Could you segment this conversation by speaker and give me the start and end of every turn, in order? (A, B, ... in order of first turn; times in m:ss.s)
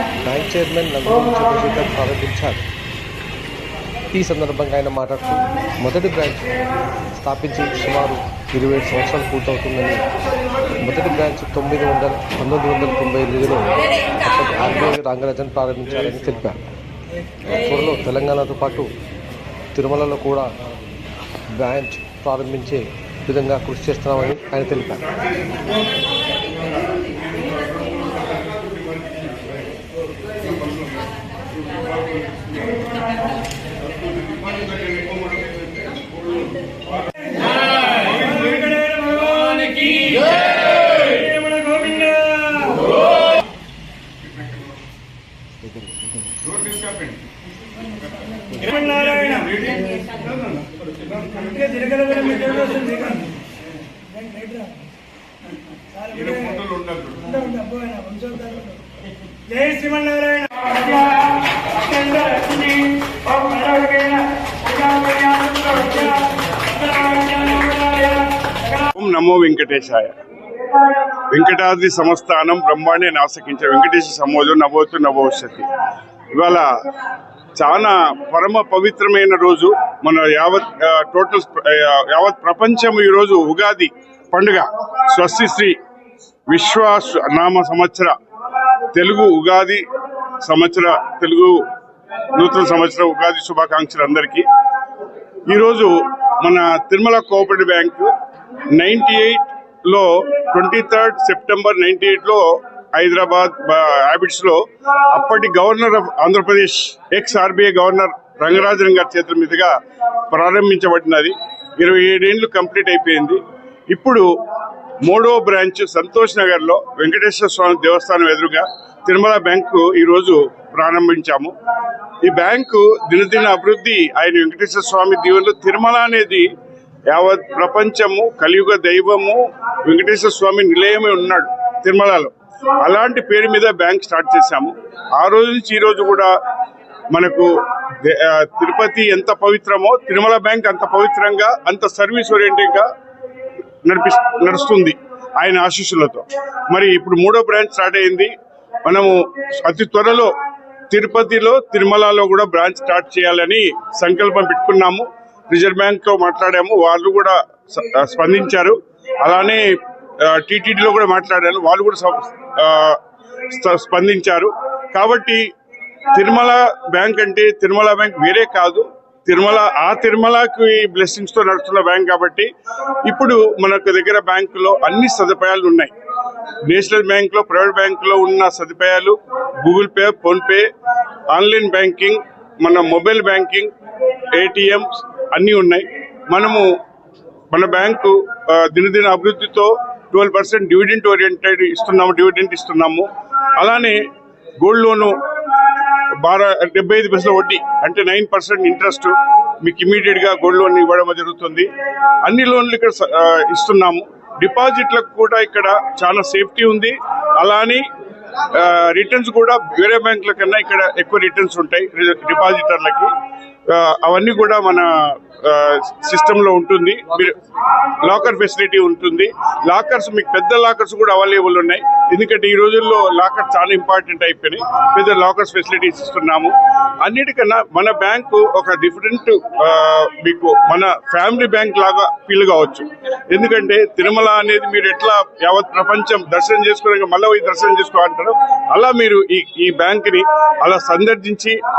0:00.2-0:02.6 A
0:04.1-0:10.0 A
0:10.8-0:16.7 A
0:17.4-0:18.9 A
0:19.8-0:20.5 A
0:21.5-0:25.2 A
0:27.4-0:28.6 B
0:38.2-0:38.6 B
0:38.6-0:40.5 C
0:41.0-0:42.9 C
0:46.5-0:46.9 B
0:48.4-0:49.5 C
0:48.9-0:50.2 B
0:51.3-0:53.3 C
0:54.1-0:54.8 C
0:56.1-0:57.4 B
0:57.4-0:58.7 C
0:59.5-1:01.1 C
1:01.9-1:02.8 C
1:03.4-1:04.2 C
1:08.9-1:10.1 B
1:11.3-1:15.6 B
1:16.4-1:16.7 B
1:17.6-1:25.8 B
1:26.5-1:28.1 B
1:28.9-1:29.8 B
1:30.4-1:31.6 B
1:32.4-1:34.4 B
1:35.5-1:38.1 B
1:38.8-1:44.6 B
1:45.1-1:49.7 B
1:50.3-1:53.4 B
1:53.9-1:54.3 B
1:55.1-2:01.5 B
2:02.2-2:06.5 B
2:07.1-2:12.3 B
2:12.8-2:16.3 B
2:17.1-2:17.5 B
2:18.0-2:22.9 B
2:23.9-2:28.3 B
2:28.8-2:30.3 B
2:30.9-2:39.7 B
2:40.2-2:43.0 B
2:43.6-2:45.4 B
2:46.1-2:52.5 B
2:53.1-2:55.9 B
2:56.7-3:00.7 B
3:01.3-3:03.7 B
3:04.4-3:06.7 B
3:07.5-3:14.0 B
3:14.6-3:15.2 B
3:16.2-3:21.7 B
3:22.3-3:27.8 B
3:28.5-3:33.1 B
3:33.7-3:37.4 B
3:38.0-4:01.6 B